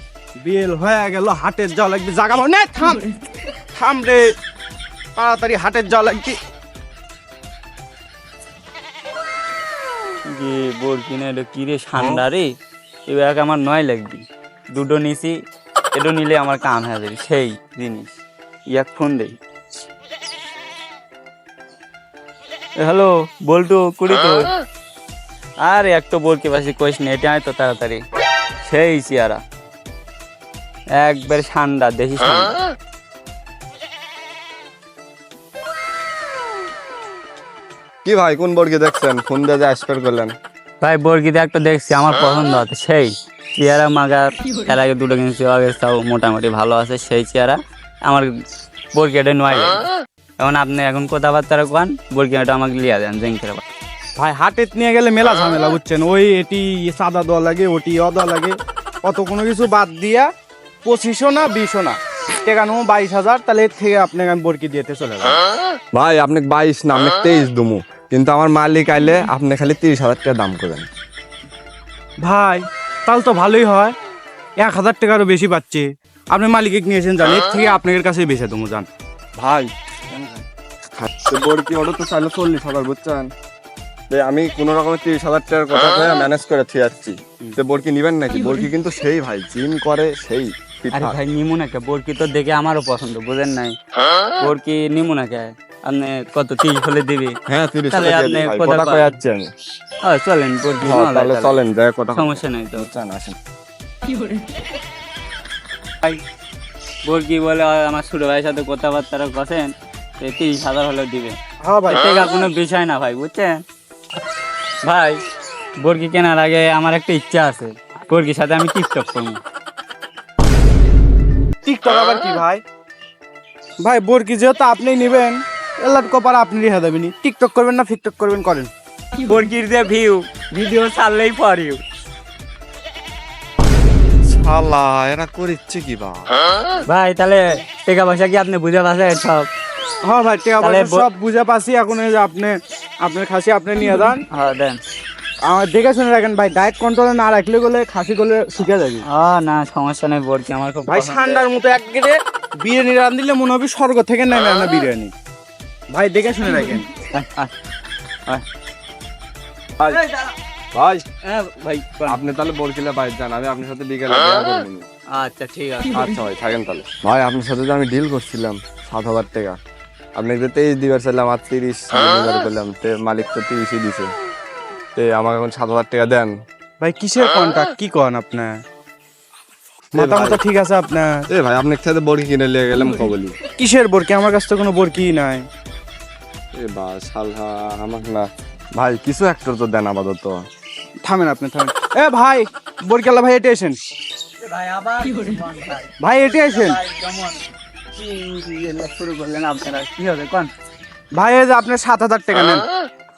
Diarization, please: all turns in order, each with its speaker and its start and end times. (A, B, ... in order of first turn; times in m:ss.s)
0:00.4-0:03.1 A
0:03.7-0:04.3 A
0:05.2-0:06.4 A
0:10.3-0:12.5 B
0:13.1-0:15.4 B
0:15.9-0:18.1 B
0:18.7-0:19.4 B
0:22.8-0:24.5 B
0:25.6-0:28.0 B
0:28.6-0:29.4 B
0:31.0-0:32.6 B
0:38.0-0:40.4 C
0:40.8-0:48.3 B
0:48.9-0:49.8 B
0:50.4-0:53.6 B
0:54.2-1:00.3 A
1:00.8-1:05.4 A
1:05.9-1:10.9 C
1:12.2-1:13.9 A
1:14.6-1:18.9 A
1:19.4-1:19.7 C
1:21.0-1:23.3 C
1:24.1-1:31.2 C
1:30.9-1:33.8 B
1:34.4-1:37.4 B
1:37.5-1:39.5 C
1:37.9-1:39.1 B
1:40.0-1:41.6 B
1:40.8-1:43.4 C
1:42.1-1:42.9 B
1:47.1-1:51.4 B
1:51.6-1:52.3 A
1:51.9-1:53.6 B
1:54.8-1:55.2 B
1:55.8-1:59.4 B
2:01.6-2:02.6 A
2:03.8-2:08.7 A
2:09.2-2:11.8 B
2:14.2-2:16.3 C
2:16.9-2:19.5 B
2:20.0-2:24.2 A
2:20.6-2:21.0 B
2:24.3-2:24.8 B
2:25.5-2:29.0 A
2:29.1-2:31.4 B
2:30.9-2:35.1 A
2:35.9-2:36.9 A
2:36.6-2:37.5 B
2:39.9-2:40.3 B
2:40.7-2:41.0 C
2:41.2-2:42.2 B
2:42.1-2:44.8 C
2:45.2-2:46.1 B
2:45.9-2:49.6 C
2:50.2-2:54.1 C
2:55.0-2:56.3 C
2:56.8-2:58.6 A
2:59.9-3:00.4 C
3:00.0-3:01.2 A
3:01.3-3:03.4 C
3:03.6-3:05.4 A
3:06.6-3:10.4 C
3:11.0-3:13.8 A
3:14.4-3:17.4 B
3:16.0-3:16.8 A
3:17.9-3:20.5 B
3:21.2-3:22.7 A